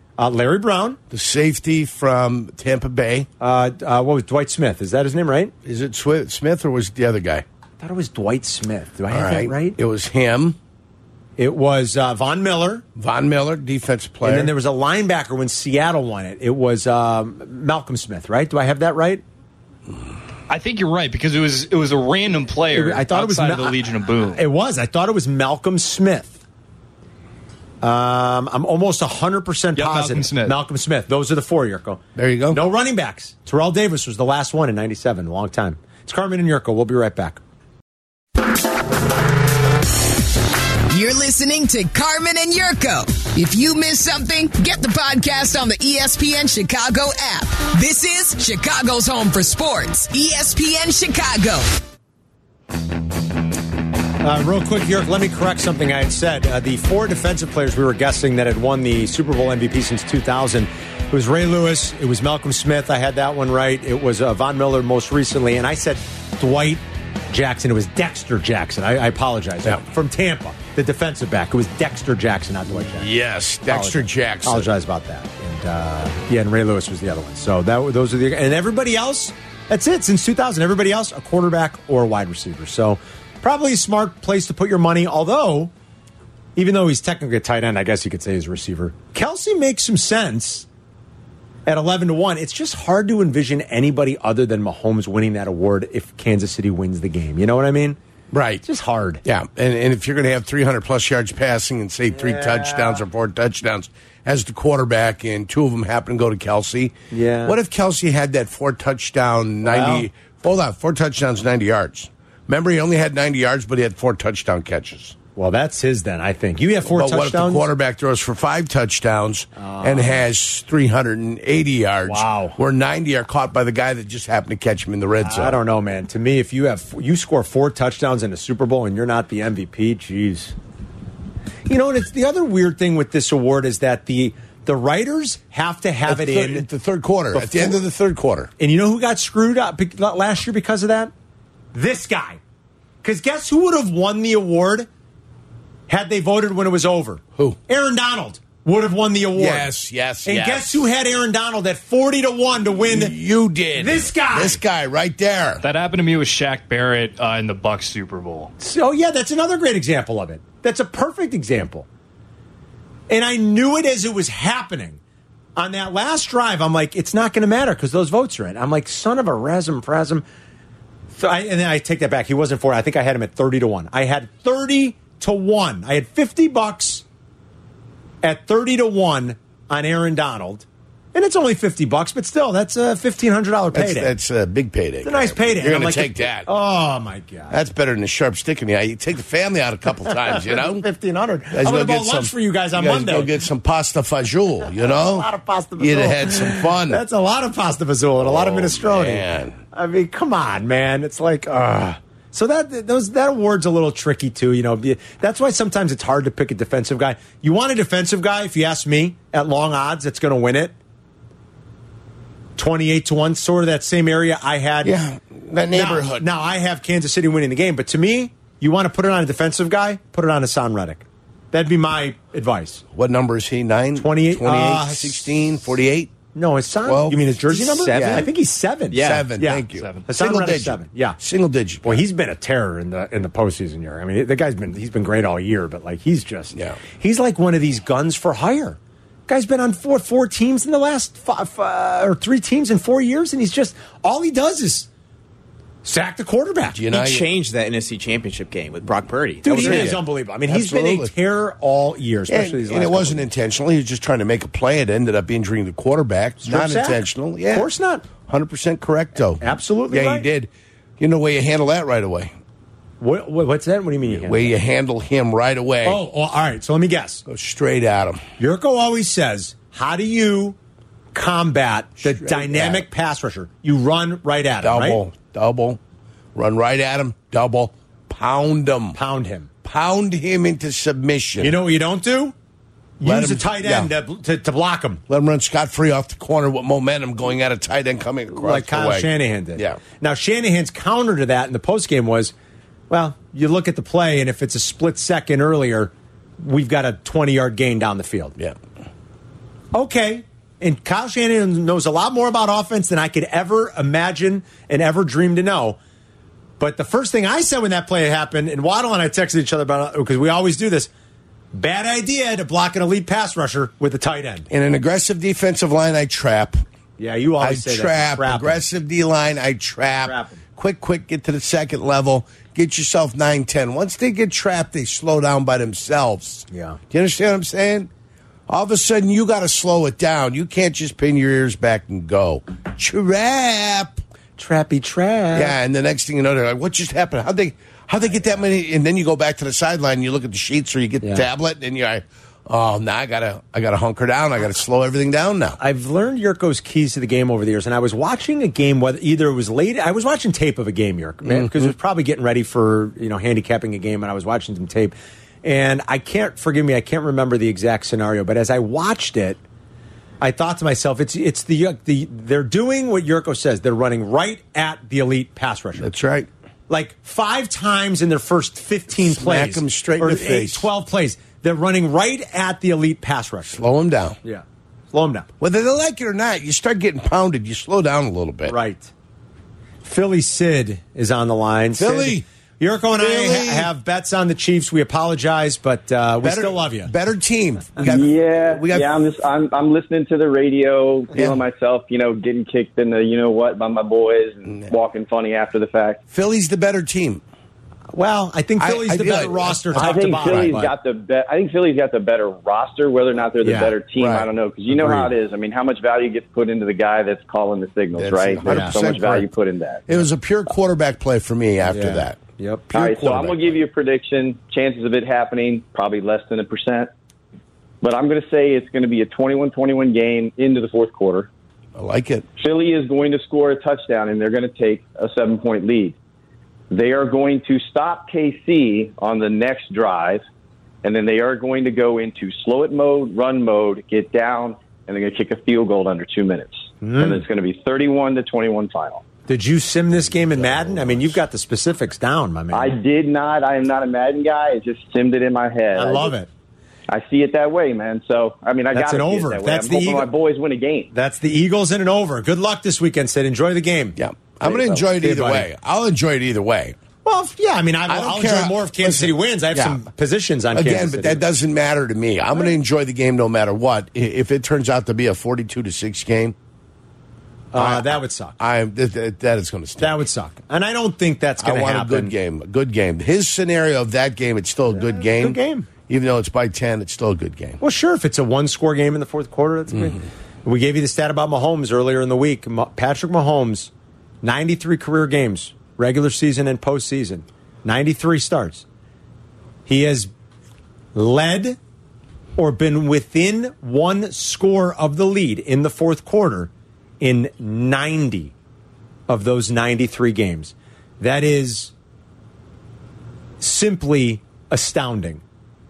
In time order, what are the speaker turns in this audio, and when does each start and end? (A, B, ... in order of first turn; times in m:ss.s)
0:00.2-0:01.0 A
0:01.1-0:03.3 B
0:03.4-0:05.5 A
0:05.6-0:07.4 B
0:07.8-0:09.8 A
0:09.1-0:10.6 B
0:11.4-0:12.8 A
0:13.0-0:14.5 B
0:14.2-0:19.2 A
0:20.5-0:24.4 C
0:22.7-0:26.4 A
0:27.8-0:37.4 A
0:29.8-0:30.6 C
0:32.2-0:32.6 B
0:40.9-0:51.8 D
0:54.2-1:13.1 A
1:12.7-1:14.7 B
1:13.6-1:25.7 A
1:26.6-1:30.7 A
1:31.6-1:38.0 A
1:38.3-1:38.6 B
1:38.6-1:39.2 A
1:39.2-1:55.2 B
1:42.1-1:43.0 A
1:47.1-1:47.6 A
1:49.6-1:50.1 A
1:55.4-1:57.7 A
1:56.8-2:05.6 B
1:59.6-2:00.2 A
2:02.0-2:02.6 A
2:05.2-2:10.5 A
2:11.7-2:16.7 A
2:16.1-2:18.5 B
2:17.3-2:17.8 A
2:18.6-2:21.1 A
2:21.7-2:22.4 A
2:23.0-2:24.9 A
2:25.9-2:29.7 A
2:29.4-2:30.8 B
2:30.2-2:33.1 A
2:32.8-2:35.6 B
2:33.7-2:34.6 A
2:35.6-2:38.5 C
2:38.6-2:41.9 A
2:43.1-2:45.0 A
2:45.6-2:50.2 A
2:51.1-2:57.0 A
2:58.2-3:04.1 A
3:03.7-3:06.5 B
3:05.0-3:07.5 A
3:07.5-3:10.8 B
3:10.1-3:13.3 A
3:11.5-3:17.0 B
3:14.8-3:30.7 A
3:18.2-3:19.6 B
3:32.6-3:35.0 A
3:34.8-3:36.2 B
3:35.7-3:42.8 A
3:42.9-3:46.1 B
3:43.9-3:45.3 A
3:46.3-3:51.2 A
3:46.8-3:48.3 B
3:47.5-3:48.3 E
3:48.9-3:49.3 E
3:48.9-3:52.0 B
3:51.8-4:04.9 A
3:56.5-3:56.8 B
4:05.8-4:06.8 A
4:06.7-4:07.3 B
4:06.9-4:10.0 E
4:09.4-4:13.3 A
4:09.5-4:11.1 B
4:12.3-4:17.7 B
4:16.4-4:18.0 A
4:18.3-4:22.3 B
4:19.4-4:20.2 A
4:23.0-4:24.5 A
4:24.0-4:26.0 B
4:25.8-4:27.2 A
4:27.2-4:28.2 B
4:28.4-4:30.6 A
4:31.1-4:35.0 A
4:32.0-4:32.8 B
4:34.6-4:35.8 B
4:36.3-4:39.0 B
4:38.9-4:39.5 A
4:39.6-4:41.6 B
4:41.4-4:42.3 A
4:43.0-4:45.0 A
4:43.0-4:43.9 B
4:45.1-4:49.8 B
4:48.3-4:52.3 A
4:52.9-4:58.4 A
4:59.7-5:05.8 A
5:06.6-5:10.9 A
5:11.5-5:14.5 A
5:14.5-5:16.6 B
5:17.0-5:18.6 A
5:17.4-5:27.9 B
5:20.0-5:20.4 A
5:26.5-5:26.8 A
5:28.5-5:34.0 B
5:34.4-5:35.5 A
5:35.3-5:45.6 B
5:45.6-5:59.4 A
5:51.3-5:51.7 B
6:00.2-6:05.9 A
6:05.8-6:06.3 B
6:06.7-6:13.6 A
6:09.0-6:10.7 B
6:13.5-6:14.2 B
6:14.2-6:15.3 A
6:15.4-6:18.6 B
6:18.5-6:18.9 A
6:19.8-6:26.9 A
6:21.8-6:22.2 B
6:23.0-6:23.7 B
6:26.2-6:29.0 B
6:27.8-6:36.0 F
6:31.1-6:31.4 B
6:34.5-6:34.7 B
6:36.1-6:37.2 B
6:37.9-6:40.7 A
6:38.6-6:40.5 B
6:39.7-6:50.0 F
6:43.4-6:43.7 A
6:44.0-6:45.1 B
6:48.0-6:49.3 B
6:48.4-6:48.8 A
6:49.9-6:52.2 B
6:51.7-6:53.3 A
6:52.7-6:53.6 B
6:52.7-6:56.9 F
6:57.8-7:01.3 F
7:01.8-7:02.2 B
7:02.4-7:06.0 F
7:06.7-7:10.2 F
7:10.8-7:19.0 F
7:16.8-7:17.2 A
7:19.3-7:22.8 A
7:20.0-7:21.2 B
7:22.5-7:26.1 F
7:25.7-7:26.3 A
7:26.9-7:30.9 F
7:28.7-7:30.1 A
7:30.9-7:35.5 A
7:34.0-7:36.8 B
7:37.0-7:41.2 A
7:37.9-7:39.8 B
7:40.5-7:46.3 B
7:47.5-7:48.4 A
7:47.5-7:50.0 B
7:49.8-7:52.1 A
7:51.4-7:57.6 B
7:54.7-7:55.7 A
7:57.6-8:03.7 A
8:04.2-8:08.6 A
8:09.7-8:10.1 A
8:10.9-8:11.6 A
8:12.4-8:18.3 A
8:19.1-8:21.7 A
8:23.4-8:25.2 A